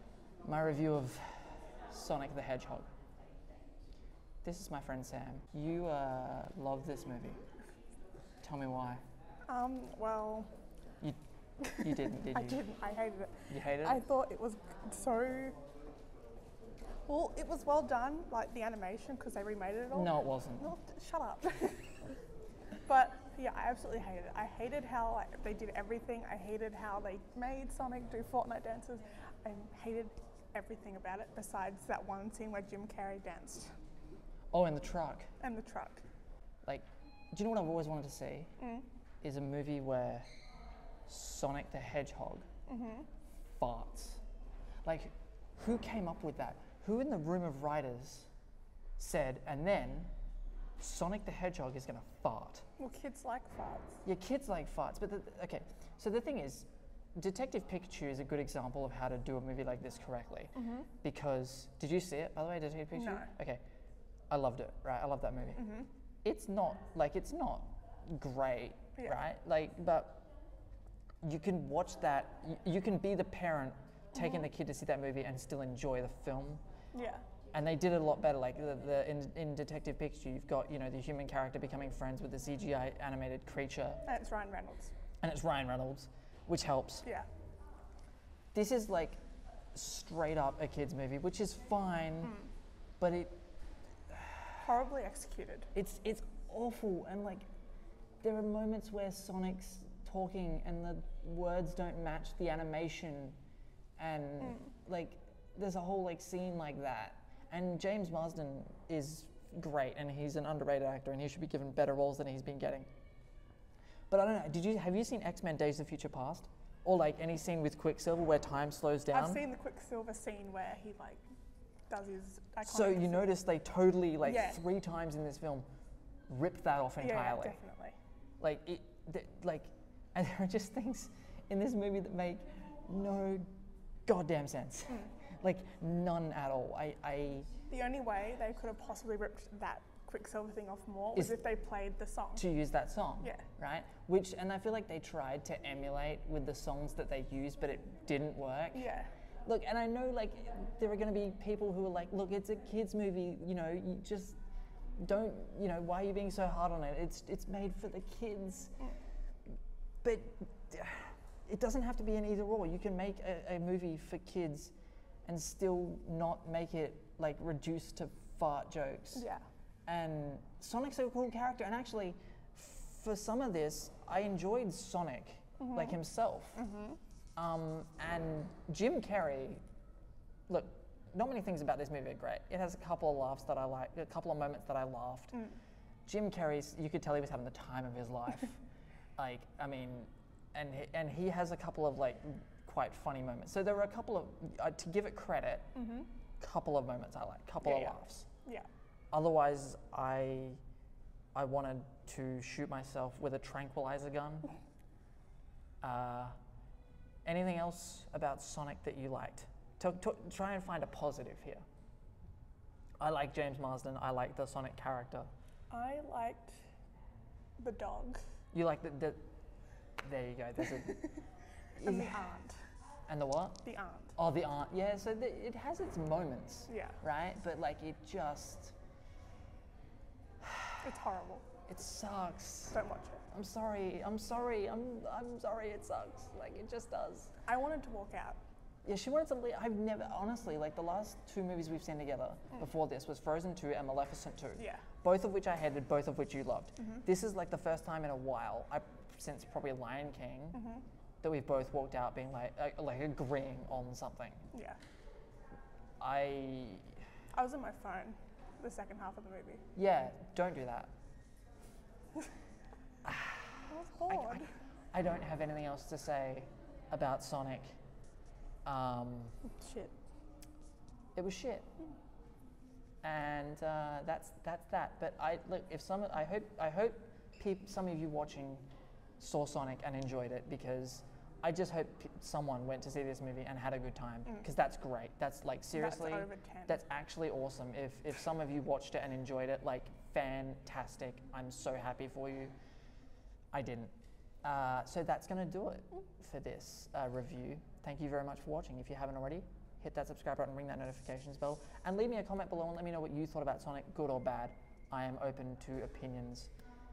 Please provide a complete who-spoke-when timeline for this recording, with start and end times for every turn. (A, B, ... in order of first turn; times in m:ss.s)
0:00.4-0:02.9 A
0:04.4-0:07.4 A
0:08.4-0:09.0 A
0:09.5-0:10.5 B
0:11.0-0:12.6 A
0:11.6-0:15.6 B
0:13.5-0:14.0 A
0:17.0-0:22.1 B
0:19.9-0:20.7 A
0:22.8-0:33.8 B
0:34.5-0:35.3 A
0:35.4-0:36.0 B
0:36.6-0:38.5 A
0:38.6-0:38.9 B
0:39.2-0:40.3 A
0:41.0-0:42.5 A
0:42.7-0:43.1 B
0:43.6-0:44.2 A
0:44.8-0:48.3 A
0:49.0-0:50.1 A
0:50.8-0:52.7 A
0:52.8-0:54.0 B
0:54.0-1:03.6 A
1:02.9-1:03.3 B
1:04.3-1:10.2 A
1:05.6-1:05.9 B
1:11.2-1:16.6 A
1:14.2-1:14.4 B
1:16.9-1:17.2 B
1:17.5-1:24.0 A
1:24.0-1:24.9 B
1:25.2-1:27.1 A
1:28.5-1:29.2 A
1:29.7-1:32.4 A
1:33.0-1:33.4 A
1:34.1-1:34.6 A
1:34.6-1:35.7 B
1:35.7-1:37.5 A
1:38.2-1:43.4 A
1:44.0-1:52.9 A
1:44.4-1:44.7 B
1:54.1-1:59.4 A
1:59.1-2:01.2 B
2:01.9-2:03.3 B
2:02.6-2:05.6 A
2:04.2-2:04.6 B
2:06.3-2:07.6 A
2:07.0-2:08.0 B
2:08.4-2:13.5 A
2:14.0-2:17.5 A
2:17.7-2:22.5 B
2:22.4-2:28.9 A
2:23.2-2:23.4 B
2:28.7-2:29.1 B
2:29.4-2:34.4 A
2:35.0-2:38.9 A
2:40.0-2:44.7 A
2:45.2-2:49.3 A
2:49.1-2:49.4 B
2:49.9-2:56.6 A
2:55.6-2:56.0 B
2:56.5-2:57.0 B
2:57.4-2:59.6 A
3:00.5-3:05.5 A
3:06.0-3:08.6 A
3:09.2-3:15.8 A
3:15.7-3:16.1 B
3:16.4-3:18.3 A
3:17.6-3:18.7 B
3:19.1-3:20.6 A
3:21.3-3:24.5 A
3:25.8-3:26.4 A
3:27.2-3:31.6 A
3:33.0-3:35.3 A
3:35.7-3:36.7 B
3:37.6-3:38.4 B
3:38.5-3:39.2 A
3:40.0-3:41.1 A
3:41.7-3:42.7 B
3:41.8-3:42.4 A
3:43.1-3:48.8 A
3:43.6-3:44.2 B
3:46.7-3:47.0 B
3:50.4-3:50.8 A
3:50.8-3:51.4 B
3:51.7-3:57.4 A
3:52.7-3:53.2 B
3:57.4-3:58.4 B
3:58.8-4:10.7 A
4:04.6-4:04.8 B
4:06.8-4:07.0 B
4:10.5-4:10.8 B
4:11.2-4:14.5 A
4:14.5-4:14.8 B
4:16.0-4:17.0 A
4:17.3-4:19.6 B
4:19.7-4:20.9 A
4:23.0-4:27.8 A
4:23.7-4:24.6 B
4:28.6-4:29.4 A
4:29.4-4:30.0 B
4:31.2-4:31.7 A
4:33.0-4:38.6 A
4:39.2-4:52.5 A
4:45.7-4:46.8 B
4:53.5-4:53.9 A
4:54.4-5:06.5 A